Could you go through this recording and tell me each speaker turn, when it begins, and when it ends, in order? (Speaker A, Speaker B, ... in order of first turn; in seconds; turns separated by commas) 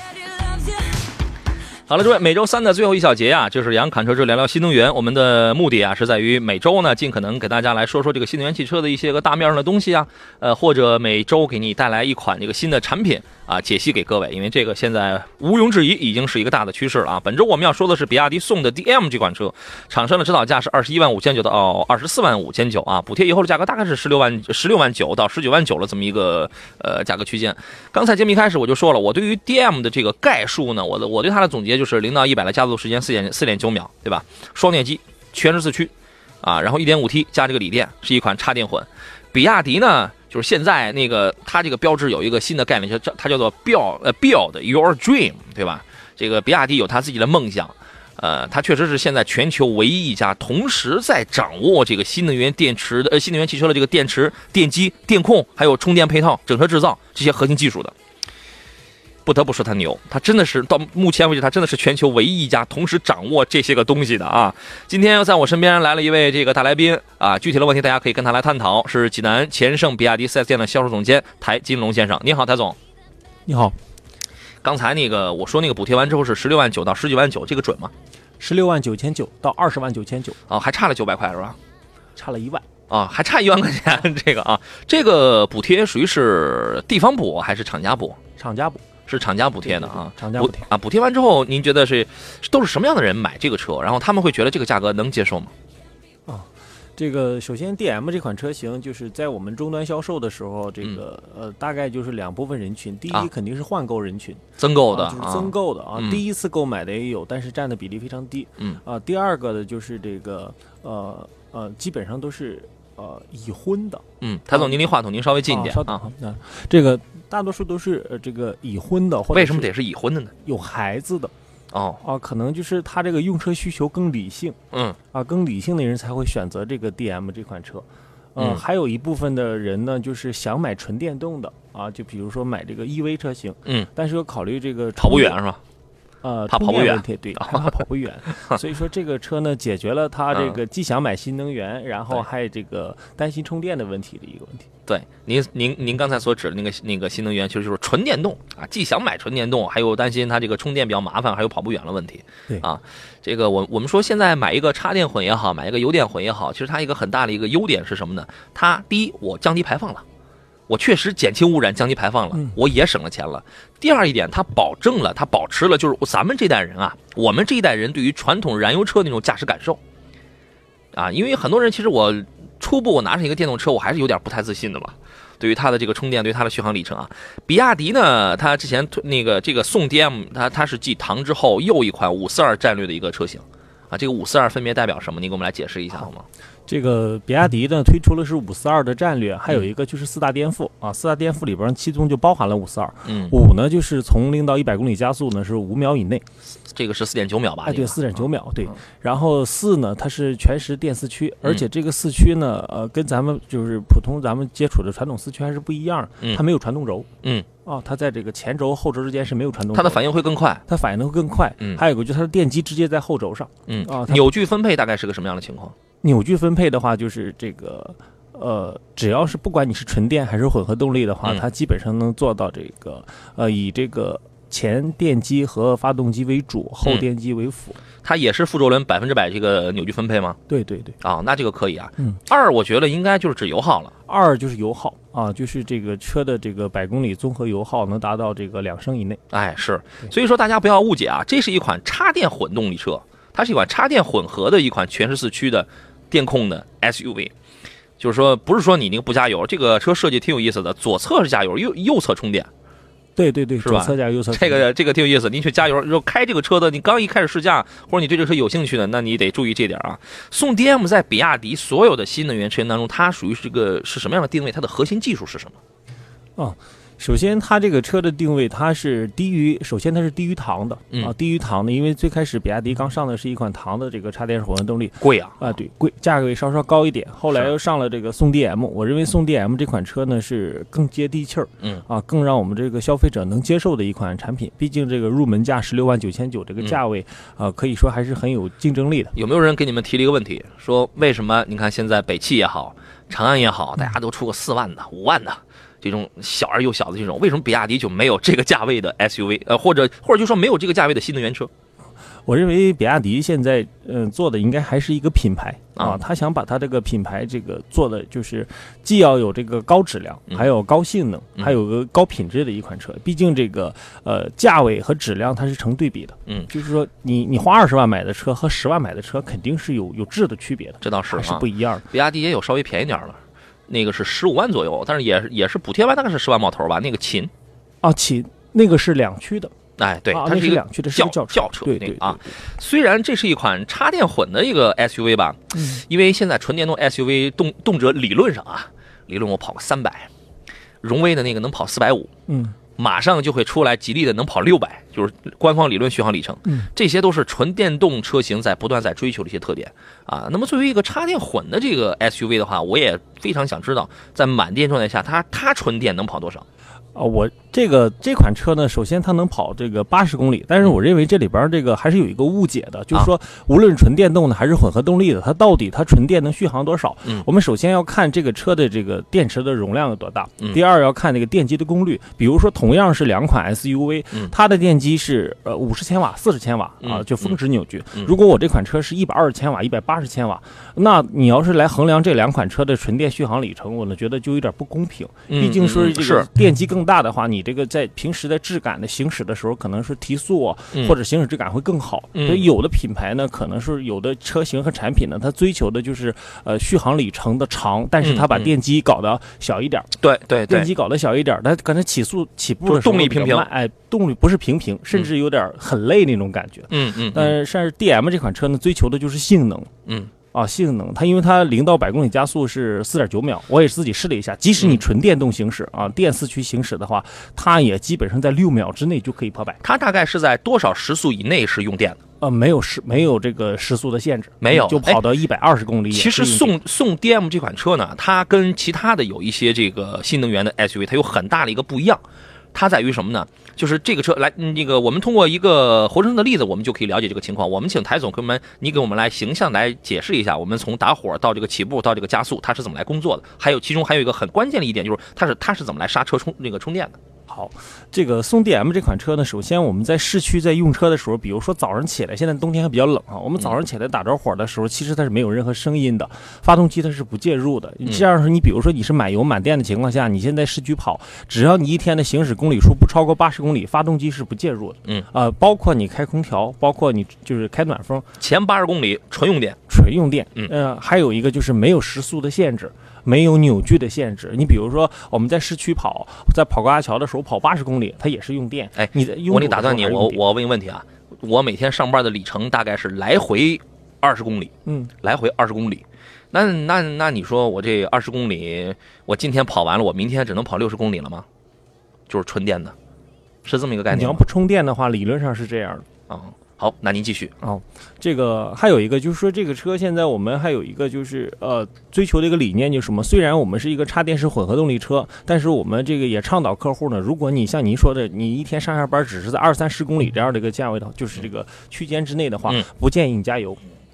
Speaker A: 1.9-57.9, Speaker A: 59.2-72.8, Speaker B: 73.5-73.8, Speaker A: 74.6-77.9, Speaker B: 78.4-80.4, Speaker A: 80.5-81.6, Speaker B: 82.1-82.6, Speaker A: 82.9-88.2, Speaker B: 88.4-88.8, Speaker A: 89.1-95.5, Speaker B: 89.6-90.7, Speaker B: 96.3-114.0, Speaker A: 104.6-106.2, Speaker A: 114.2-116.0, Speaker B: 115.5-119.7, Speaker A: 119.3-120.3, Speaker B: 120.4-121.3, Speaker A: 121.7-122.0, Speaker B: 122.0-124.6, Speaker A: 124.7-125.0, Speaker B: 125.1-135.4, Speaker A: 128.4-128.6, Speaker A: 135.0-135.6, Speaker B: 136.2-144.7, Speaker A: 136.5-137.7, Speaker A: 144.9-160.0, Speaker A: 160.7-169.8, Speaker A: 170.9-186.2, Speaker B: 186.7-196.2, Speaker A: 193.0-193.4, Speaker A: 196.7-198.1, Speaker B: 197.6-207.1, Speaker B: 207.6-210.0, Speaker A: 209.7-210.6, Speaker B: 210.7-214.2, Speaker A: 213.7-215.7, Speaker B: 216.0-227.8, Speaker A: 228.0-230.4, Speaker B: 230.5-231.0, Speaker A: 231.0-233.9, Speaker B: 234.1-239.2, Speaker A: 239.3-247.3, Speaker A: 248.0-252.5, Speaker B: 253.2-254.7, Speaker A: 253.6-265.6, Speaker B: 266.4-289.1, Speaker A: 275.0-275.5, Speaker A: 289.1-301.5, Speaker B: 302.2-321.9, Speaker A: 320.8-327.3, Speaker B: 327.8-329.5, Speaker A: 329.8-340.1, Speaker B: 330.1-332.4, Speaker B: 335.5-335.8, Speaker A: 340.8-342.1, Speaker B: 342.3-342.6, Speaker A: 342.8-356.4, Speaker B: 356.9-399.9, Speaker A: 376.8-377.4, Speaker A: 385.3-386.3, Speaker A: 392.1-392.5, Speaker A: 398.0-398.5, Speaker A: 400.0-400.7, Speaker B: 400.5-409.7, Speaker A: 402.6-403.5, Speaker A: 406.7-407.4, Speaker A: 409.9-410.1, Speaker B: 410.3-419.6, Speaker A: 414.6-414.8, Speaker A: 419.6-422.0, Speaker B: 422.2-426.6, Speaker A: 424.4-425.0, Speaker A: 425.9-432.0, Speaker A: 432.5-447.0, Speaker B: 447.3-468.1, Speaker A: 468.2-469.6, Speaker B: 469.7-480.2, Speaker A: 478.8-491.2, Speaker B: 484.6-484.9, Speaker A: 492.1-492.7, Speaker A: 493.4-494.2, Speaker B: 493.9-495.9, Speaker A: 496.1-497.3, Speaker B: 497.4-513.6